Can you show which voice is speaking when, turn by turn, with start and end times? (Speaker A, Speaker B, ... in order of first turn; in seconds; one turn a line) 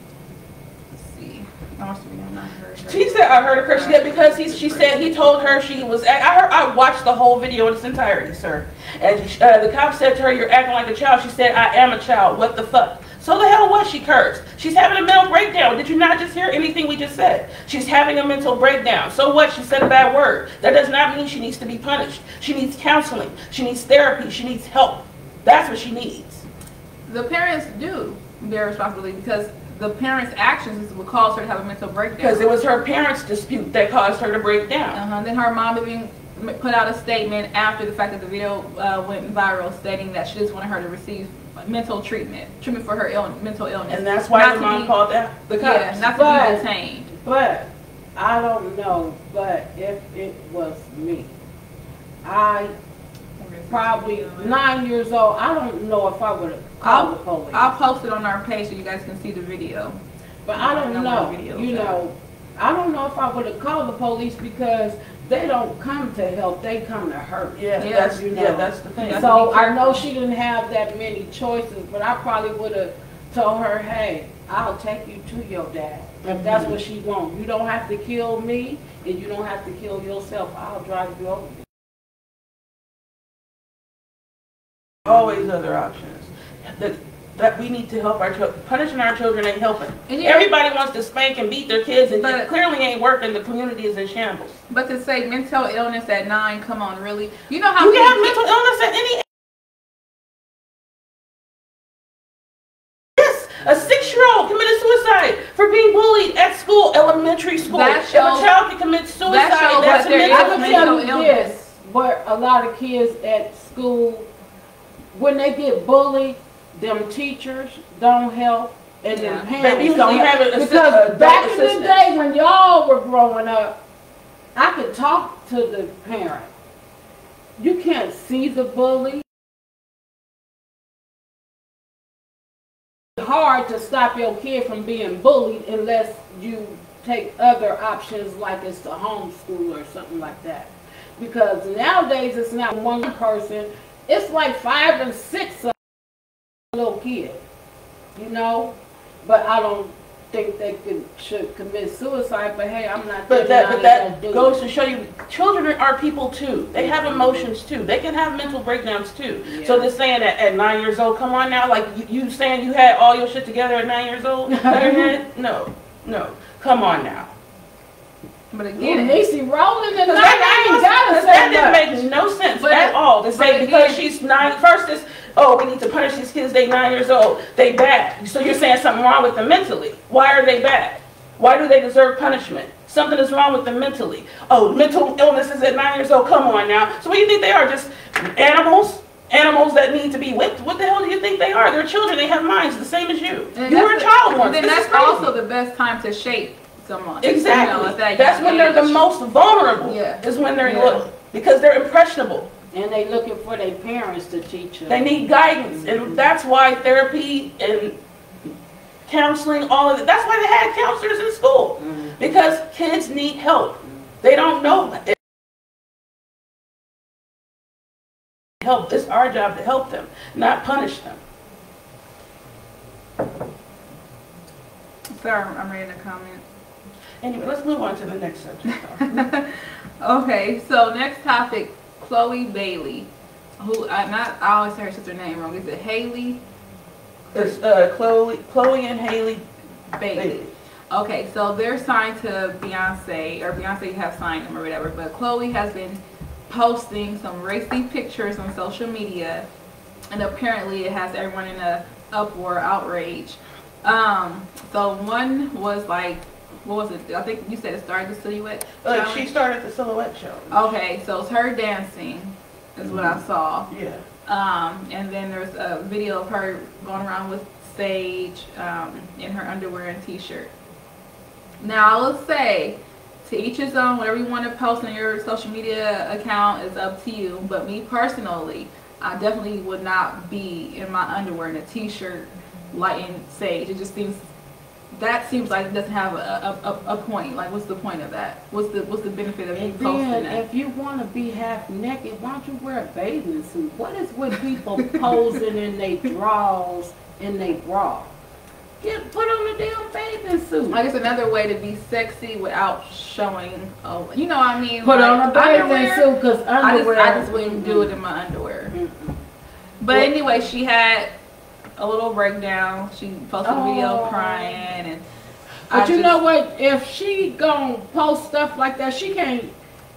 Speaker A: 0.9-5.6
Speaker B: 2.9-26.4
Speaker A: 27.1-32.5
Speaker B: 32.2-35.0
Speaker A: 34.9-44.9
Speaker B: 43.9-46.1
Speaker A: 45.6-47.1
Speaker C: 46.1-51.3
Speaker C: 52.2-52.7
Speaker A: 53.4-54.6
Speaker C: 53.7-57.8
Speaker A: 56.8-60.0
Speaker C: 60.5-81.7
Speaker A: 60.5-62.0
Speaker B: 67.6-69.3
Speaker A: 67.8-68.2
Speaker A: 69.0-70.0
Speaker B: 76.3-76.8
Speaker C: 85.1-85.3
Speaker B: 85.1-94.6
Speaker A: 90.1-90.5
Speaker A: 92.2-92.5
Speaker A: 94.7-98.4
Speaker B: 97.8-99.2
Speaker B: 103.2-111.0
Speaker A: 107.7-108.5
Speaker A: 109.2-111.7
Speaker C: 109.8-114.3
Speaker C: 115.1-123.8
Speaker A: 119.1-119.5
Speaker B: 119.6-122.1
Speaker C: 124.5-126.5
Speaker C: 127.6-129.3
Speaker C: 133.2-145.8
Speaker C: 146.7-147.4
Speaker C: 148.2-154.6
Speaker B: 153.3-167.3
Speaker C: 156.8-157.5
Speaker C: 159.5-159.9
Speaker C: 164.5-165.2
Speaker A: 168.5-169.2
Speaker C: 168.8-172.0
Speaker B: 170.1-195.3
Speaker A: 172.6-174.0
Speaker A: 193.6-199.1
Speaker B: 197.2-202.5
Speaker A: 199.8-201.0
Speaker C: 202.7-206.2
Speaker B: 204.9-208.0
Speaker B: 209.1-215.2
Speaker C: 211.8-212.4
Speaker B: 218.6-221.2
Speaker A: 225.1-226.4
Speaker B: 227.2-229.3
Speaker A: 228.7-236.4
Speaker A: 237.3-237.6
Speaker B: 237.3-239.4
Speaker A: 239.9-240.4
Speaker B: 240.2-240.5
Speaker A: 240.9-249.5
Speaker A: 250.1-259.3
Speaker B: 258.8-260.7
Speaker A: 260.5-263.7
Speaker B: 262.8-264.0
Speaker A: 264.3-270.5
Speaker A: 271.6-284.3
Speaker A: 284.9-290.4
Speaker C: 289.5-298.1
Speaker C: 298.8-300.8
Speaker A: 300.7-306.1
Speaker C: 304.8-308.0
Speaker A: 306.6-308.7
Speaker C: 308.7-309.2
Speaker A: 309.8-311.1
Speaker A: 311.8-315.1
Speaker C: 313.4-314.6
Speaker A: 315.7-316.2
Speaker C: 315.7-319.5